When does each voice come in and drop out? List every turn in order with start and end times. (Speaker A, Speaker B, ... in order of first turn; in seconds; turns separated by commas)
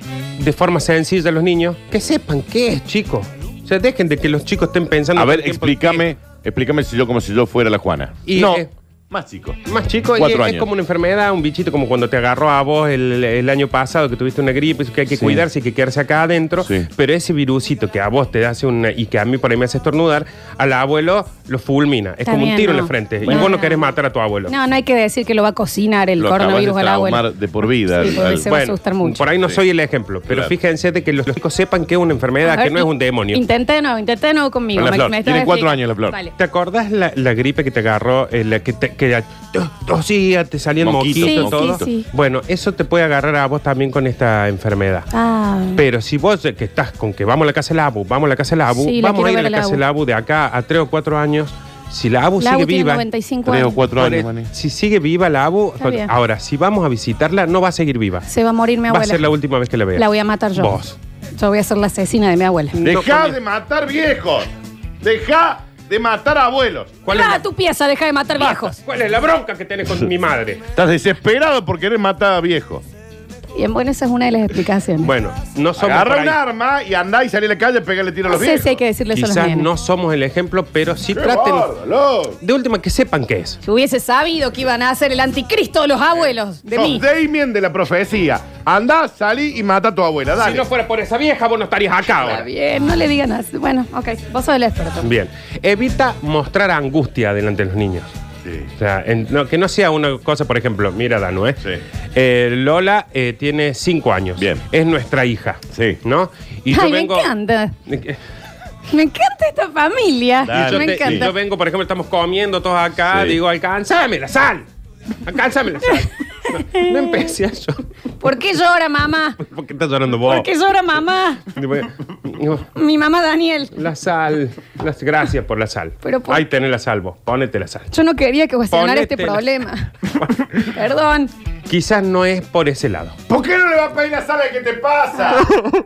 Speaker A: 0.4-6.1, Speaker B: 5.2-9.6, Speaker A: 8.3-8.7, Speaker A: 9.7-24.5, Speaker B: 10.1-10.7, Speaker B: 15.1-15.4, Speaker B: 16.6-16.9, Speaker C: 22.3-23.9, Speaker B: 23.2-23.5, Speaker C: 24.5-27.3, Speaker B: 26.2-28.5, Speaker C: 27.9-29.3, Speaker A: 28.1-33.4, Speaker B: 30.3-30.5, Speaker C: 32.4-36.3, Speaker B: 34.8-36.2, Speaker A: 36.4-45.1, Speaker B: 40.8-41.9, Speaker C: 41.1-42.1, Speaker C: 45.1-45.8, Speaker A: 45.8-53.0, Speaker C: 48.7-49.8, Speaker C: 52.4-53.8, Speaker B: 53.5-54.5, Speaker A: 54.0-58.3, Speaker C: 55.8-56.1, Speaker C: 58.3-59.2, Speaker A: 58.9-61.0, Speaker C: 59.9-60.8, Speaker C: 61.4-62.8, Speaker A: 62.7-63.4, Speaker B: 62.8-64.5, Speaker B: 65.0-67.0, Speaker A: 67.0-67.4, Speaker C: 67.1-68.8, Speaker A: 68.4-70.6, Speaker B: 70.7-72.8, Speaker C: 73.5-75.1, Speaker A: 75.0-76.4, Speaker B: 75.8-78.8, Speaker C: 78.3-79.7, Speaker A: 79.1-81.7, Speaker B: 81.1-82.4, Speaker A: 82.4-83.6, Speaker C: 83.6-87.0, Speaker B: 86.7-90.7, Speaker A: 90.4-92.5, Speaker C: 92.2-95.1, Speaker A: 95.0-98.1, Speaker B: 98.4-98.7, Speaker A: 98.8-101.6, Speaker A: 102.2-107.3, Speaker B: 104.4-104.6, Speaker B: 105.7-106.0, Speaker C: 106.7-107.8, Speaker A: 107.9-108.2, Speaker C: 108.9-111.3, Speaker B: 110.5-111.3, Speaker A: 110.5-114.7, Speaker B: 113.1-113.4, Speaker A: 115.2-117.8, Speaker C: 118.2-119.4, Speaker A: 119.4-120.5, Speaker C: 120.1-121.5, Speaker A: 121.5-122.7, Speaker C: 122.7-123.8, Speaker A: 123.8-127.9, Speaker C: 126.0-126.5, Speaker C: 127.9-130.0, Speaker A: 128.7-129.5, Speaker C: 130.5-131.3, Speaker A: 131.7-133.2, Speaker B: 133.3-135.6